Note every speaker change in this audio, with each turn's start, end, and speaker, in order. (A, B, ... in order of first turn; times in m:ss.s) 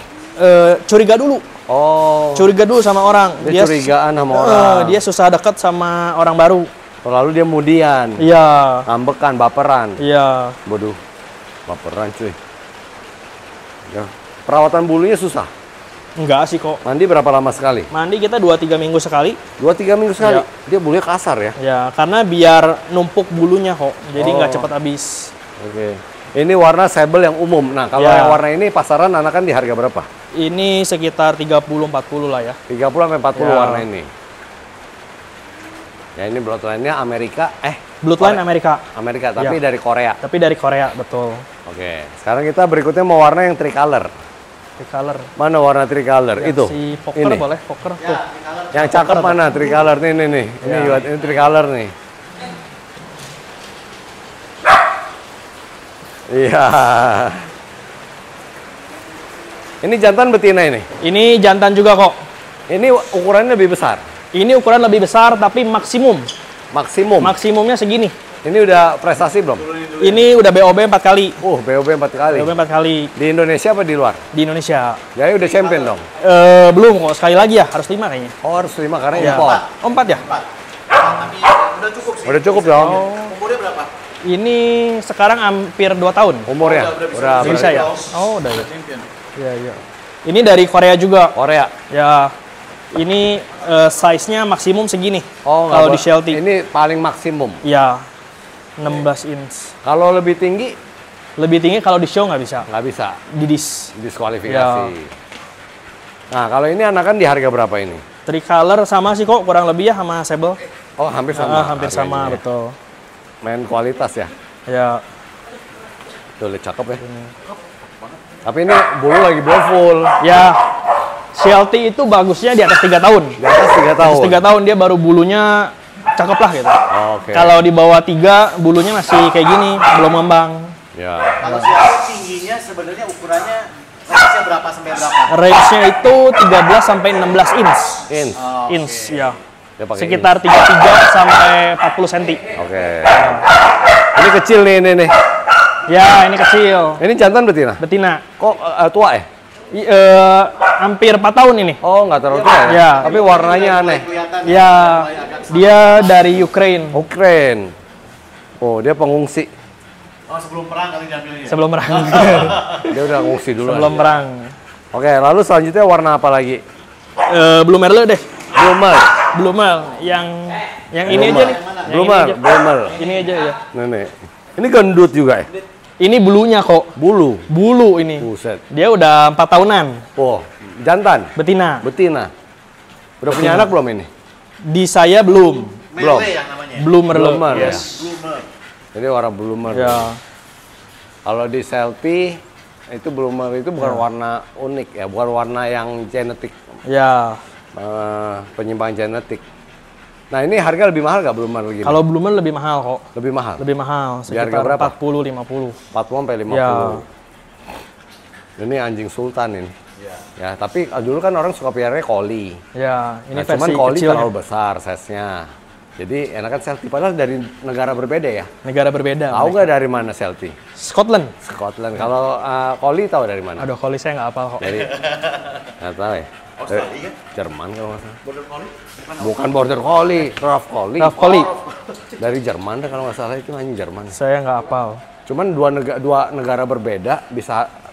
0:00.4-0:01.4 A
0:01.7-0:02.5 B
0:02.4-0:06.7 A
0:03.4-0:05.0 B
0:07.0-0:08.2 B
0:08.2-0:08.9 A
0:08.9-0:10.0 B
0:10.0-0:10.6 A
0:10.6-0:11.0 B
0:11.7-0:12.4 B
0:13.9-0:15.5 B
0:16.2-0:16.8 A
0:16.8-0:17.9 B
0:17.9-0:19.4 A
0:19.6-0:21.6 B
0:20.2-0:20.4 A
0:21.6-0:25.3 A
0:24.1-0:24.7 B
0:25.6-0:30.1 B
0:28.0-0:28.4 A
0:30.3-0:32.6 A
0:32.7-0:34.1 B
0:33.4-0:33.8 A
0:36.2-0:38.4 B
0:38.0-0:38.8 A
0:38.9-0:40.2 B
0:40.2-0:41.4 A
0:41.6-0:44.1 B
0:44.8-0:45.3 A
0:45.4-0:47.4 B
0:46.4-0:48.2 A
0:48.0-0:48.8 C
0:48.7-0:51.9 B
0:48.8-0:49.5 A
0:50.6-0:51.0 A
0:56.3-0:57.5 B
0:59.8-1:00.9 B
1:01.0-1:02.2 A
1:02.7-1:04.0 B
1:04.3-1:06.3 A
1:06.7-1:07.4 B
1:07.2-1:08.1 A
1:08.4-1:09.7 B
1:09.7-1:10.2 C
1:10.0-1:11.4 A
1:11.4-1:12.5 B
1:12.3-1:13.1 A
1:13.2-1:14.2 B
1:14.3-1:15.0 A
1:15.1-1:16.1 B
1:15.5-1:15.9 C
1:16.2-1:18.3 A
1:18.4-1:19.6 B
1:19.2-1:20.2 A
1:19.2-1:23.9 C
1:22.2-1:23.0 B
1:22.7-1:23.3 A
1:24.2-1:26.5 A
1:26.5-1:27.9 B
1:26.6-1:29.1 C
1:27.4-1:28.7 A
1:29.4-1:31.3 A
1:31.3-1:31.7 B
1:31.9-1:32.3 A
1:32.9-1:36.4 A
1:35.4-1:37.6 B
1:37.6-1:38.0 A
1:38.8-1:39.7 A
1:39.8-1:40.8 B
1:41.4-1:42.7 A
1:42.7-1:43.2 B
1:43.3-1:43.9 A
1:44.0-1:45.1 B
1:44.5-1:44.9 A
1:46.3-1:48.0 B
1:48.2-1:50.6 A
1:51.0-1:52.4 B
1:51.3-1:52.7 A
1:53.4-1:54.3 B
1:54.7-1:55.0 A
1:56.4-1:57.0 B
1:57.0-1:57.3 A
1:58.4-2:00.2 B
2:00.2-2:00.6 A
2:01.3-2:03.4 A
2:03.4-2:04.4 B
2:04.0-2:06.8 A
2:06.9-2:07.6 B
2:07.3-2:10.8 A
2:10.9-2:11.5 B
2:11.4-2:15.3 C
2:15.3-2:18.1 A
2:18.1-2:18.4 B
2:18.4-2:19.3 C
2:18.7-2:19.4 A
2:19.8-2:20.3 B
2:20.0-2:22.4 A
2:22.5-2:25.1 B
2:23.1-2:23.4 A
2:25.9-2:27.0 A
2:27.0-2:27.8 B
2:27.8-2:28.2 A
2:28.4-2:29.3 B
2:29.7-2:31.8 A
2:31.8-2:34.1 B
2:32.3-2:36.0 C
2:32.6-2:33.2 A
2:34.4-2:37.0 A
2:36.9-2:37.7 B
2:38.6-2:39.5 B
2:40.3-2:42.8 C
2:41.5-2:43.0 A
2:42.9-2:44.0 B
2:43.6-2:44.5 A
2:44.9-2:46.6 B
2:47.3-2:48.2 A
2:48.5-2:49.1 B
2:49.3-2:53.6 A
2:51.0-2:53.0 B
2:51.1-2:51.9 C
2:53.7-2:55.5 B
2:56.0-2:56.9 A
2:57.0-2:57.5 B
2:57.5-3:00.0 A
2:58.2-2:58.6 B
3:00.2-3:02.3 B
3:01.4-3:01.8 A
3:03.2-3:04.1 B
3:03.3-3:03.7 A
3:04.7-3:05.8 A
3:05.9-3:06.9 C
3:06.0-3:06.4 B
3:06.8-3:07.9 A
3:07.1-3:07.9 B
3:07.4-3:08.5 C
3:08.9-3:10.1 B
3:09.7-3:10.2 A
3:11.2-3:16.6 B
3:16.9-3:17.4 A
3:17.7-3:19.4 B
3:20.3-3:22.0 B
3:21.8-3:23.0 A
3:23.1-3:23.6 B
3:23.6-3:25.8 A
3:24.3-3:24.9 B
3:25.9-3:27.0 B
3:26.5-3:27.0 A
3:28.6-3:29.7 B
3:30.4-3:32.6 B
3:32.7-3:34.3 A
3:33.3-3:38.5 B
3:38.6-3:39.6 A
3:39.3-3:40.5 B
3:40.8-3:41.3 A
3:41.4-3:43.7 B
3:43.6-3:44.8 A
3:44.6-3:45.0 B
3:44.9-3:45.5 C
3:45.8-3:48.2 B
3:46.6-3:47.2 C
3:48.2-3:49.4 C
3:49.2-3:51.5 B
3:51.0-3:51.5 A
3:52.2-3:54.1 B
3:54.1-3:55.0 A
3:55.2-3:57.7 B